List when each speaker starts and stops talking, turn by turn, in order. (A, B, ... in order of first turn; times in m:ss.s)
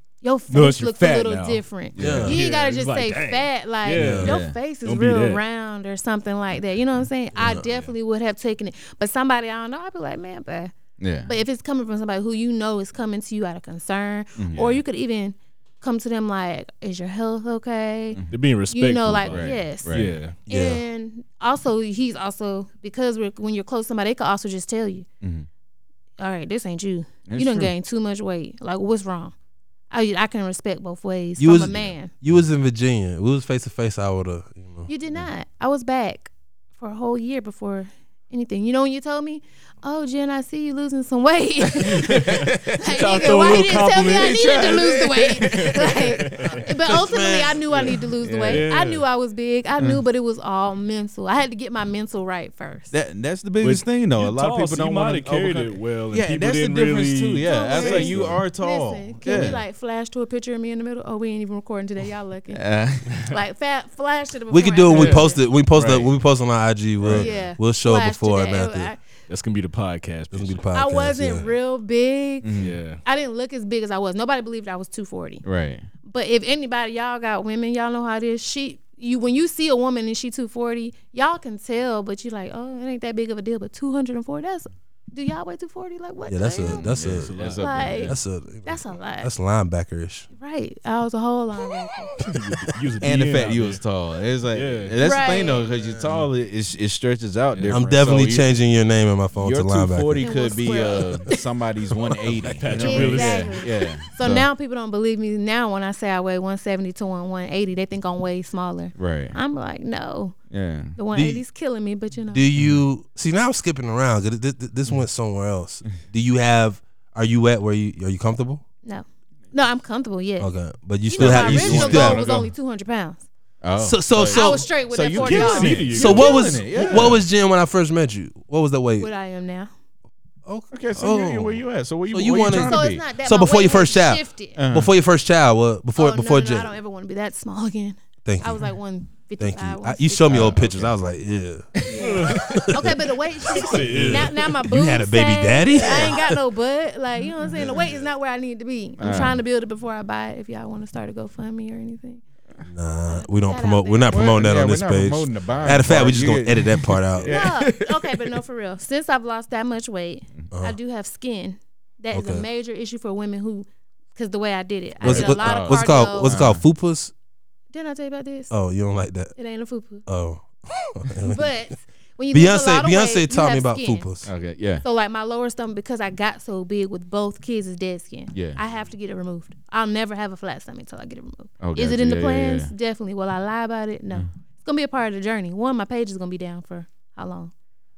0:00.2-0:10.7 A
0:00.5-0:05.4 B
0:01.9-0:02.4 C
0:02.0-0:02.4 D
0:03.9-0:04.3 D
0:04.2-0:04.6 C
0:07.4-0:07.9 D
0:11.0-0:11.3 C
0:11.2-0:25.0 A
0:14.4-0:14.8 C
0:18.1-0:18.4 C
0:18.3-0:20.4 B
0:19.3-0:20.1 C
0:20.5-0:20.8 D
0:25.2-0:25.5 C
0:26.2-0:29.3 A
0:27.3-0:27.7 C
0:29.9-0:32.1 A
0:31.4-0:34.9 D
0:34.9-0:52.9 A
0:41.9-0:42.7 C
0:42.0-0:44.4 B
0:44.1-0:46.0 C
0:45.4-0:46.6 B
0:46.7-0:47.6 D
0:47.7-0:49.0 B
0:48.0-0:48.7 C
0:52.9-0:59.6 C
0:53.6-0:58.4 B
0:57.4-1:02.6 A
1:02.5-1:03.2 C
1:03.2-1:05.4 A
1:04.5-1:08.9 D
1:04.9-1:06.1 B
1:07.0-1:07.4 B
1:07.1-1:09.0 A
1:09.3-1:10.6 B
1:10.3-1:11.5 D
1:10.7-1:15.4 A
1:12.4-1:12.8 C
1:12.6-1:13.0 B
1:15.4-1:15.9 C
1:16.0-1:26.9 A
1:26.3-1:30.3 D
1:26.6-1:28.2 C
1:27.1-1:27.9 B
1:27.6-1:29.3 A
1:30.4-1:32.1 A
1:31.7-1:32.4 D
1:32.2-1:33.8 B
1:33.0-1:38.5 C
1:34.5-1:35.0 B
1:35.0-1:35.7 A
1:35.8-1:36.0 D
1:37.7-1:40.2 D
1:39.4-1:44.5 C
1:40.2-1:41.4 A
1:42.0-1:42.7 D
1:42.5-1:43.6 B
1:42.8-1:50.4 A
1:49.0-1:49.4 C
1:50.5-1:51.0 C
1:51.0-1:52.5 A
1:51.1-1:51.4 D
1:52.3-1:58.6 D
1:58.8-2:00.5 A
2:00.4-2:02.2 D
2:01.1-2:03.2 A
2:01.2-2:02.5 C
2:03.6-2:07.2 C
2:03.8-2:04.7 D
2:04.3-2:06.8 A
2:05.1-2:07.1 B
2:05.9-2:09.1 D
2:09.0-2:09.7 A
2:10.4-2:16.7 D
2:10.7-2:13.0 C
2:12.5-2:14.6 A
2:14.6-2:14.9 C
2:16.0-2:20.5 A
2:18.2-2:18.7 D
2:19.4-2:26.4 D
2:20.3-2:21.0 C
2:21.8-2:22.5 C
2:21.9-2:32.2 A
2:22.0-2:22.6 B
2:23.5-2:24.4 B
2:25.8-2:26.2 C
2:27.6-2:27.9 C
2:29.0-2:29.4 C
2:32.6-2:37.4 D
2:33.1-2:34.2 A
2:34.1-2:38.3 C
2:37.2-2:46.4 A
2:40.5-2:40.8 D
2:42.1-2:42.4 D
2:45.0-2:46.6 C
2:45.0-2:47.1 D
2:47.7-2:48.5 A
2:48.5-2:49.3 D
2:49.3-2:50.0 A
2:50.1-2:51.5 D
2:51.2-2:54.1 A
2:52.3-2:54.3 D
2:54.2-2:54.8 C
2:54.8-3:07.5 A
2:58.3-2:58.6 C
3:01.6-3:02.7 C